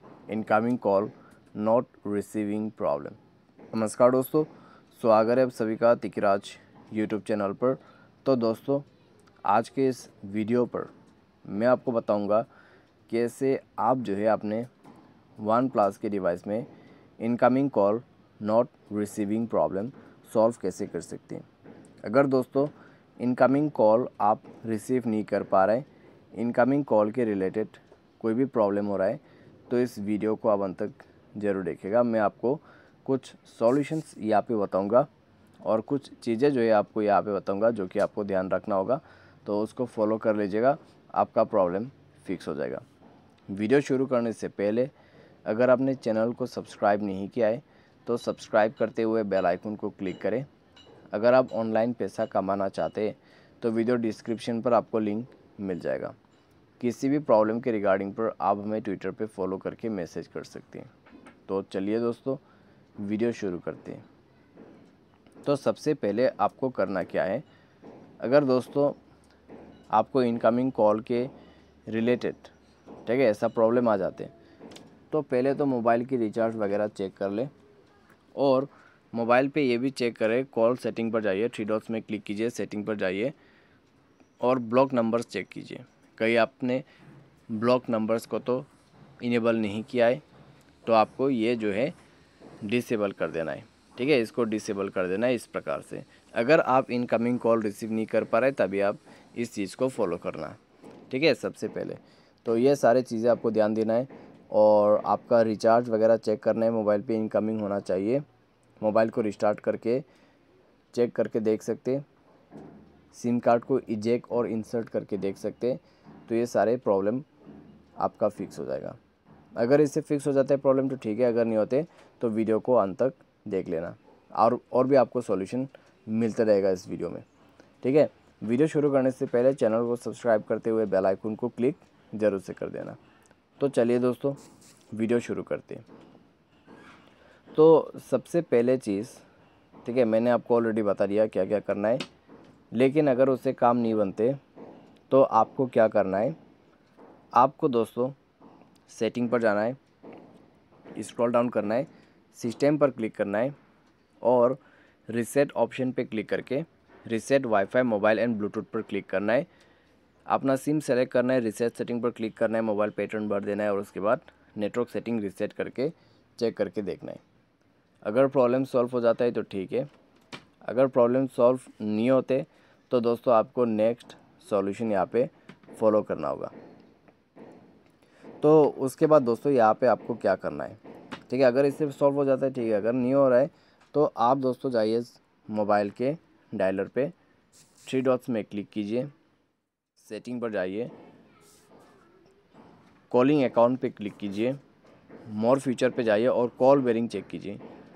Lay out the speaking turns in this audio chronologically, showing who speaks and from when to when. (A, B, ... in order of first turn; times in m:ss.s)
0:00.3-0:03.2 A
0:03.7-0:08.9 A
0:09.4-0:10.9 A
0:11.4-0:12.5 A
0:13.1-0:14.7 A
0:15.4-0:16.7 A
0:17.2-0:21.4 A
0:22.0-0:35.1 A
0:35.6-0:42.8 A
0:43.5-0:44.9 A
0:45.4-0:50.5 A
0:51.1-0:56.2 A
0:56.8-1:00.9 A
1:01.5-1:02.4 A
1:03.0-1:04.0 A
1:05.4-1:07.4 A
1:08.2-1:09.0 A
1:09.9-1:11.3 A
1:11.9-1:12.5 A
1:13.1-1:14.3 A
1:15.1-1:17.5 A
1:18.4-1:23.4 A
1:24.4-1:26.8 A
1:27.5-1:28.7 A
1:29.2-1:30.2 A
1:30.9-1:32.0 A
1:32.6-1:40.6 A
1:41.1-1:48.2 A
1:48.8-1:50.0 A
1:50.9-1:52.0 A
1:53.1-1:57.2 A
1:58.0-1:59.0 A
1:59.6-2:07.2 A
2:07.8-2:13.0 A
2:13.6-2:14.4 A
2:14.9-2:15.8 A
2:17.6-2:19.2 A
2:19.8-2:22.0 A
2:22.7-2:24.4 A
2:25.1-2:26.4 A
2:27.4-2:28.2 A
2:28.9-2:29.8 A
2:31.0-2:33.6 A
2:34.2-2:39.5 A
2:40.3-2:47.2 A
2:48.0-2:49.9 A
2:50.6-2:56.5 A
2:58.4-3:07.1 A
3:07.9-3:09.1 A
3:10.0-3:10.9 A
3:13.1-3:14.6 A
3:15.3-3:17.6 A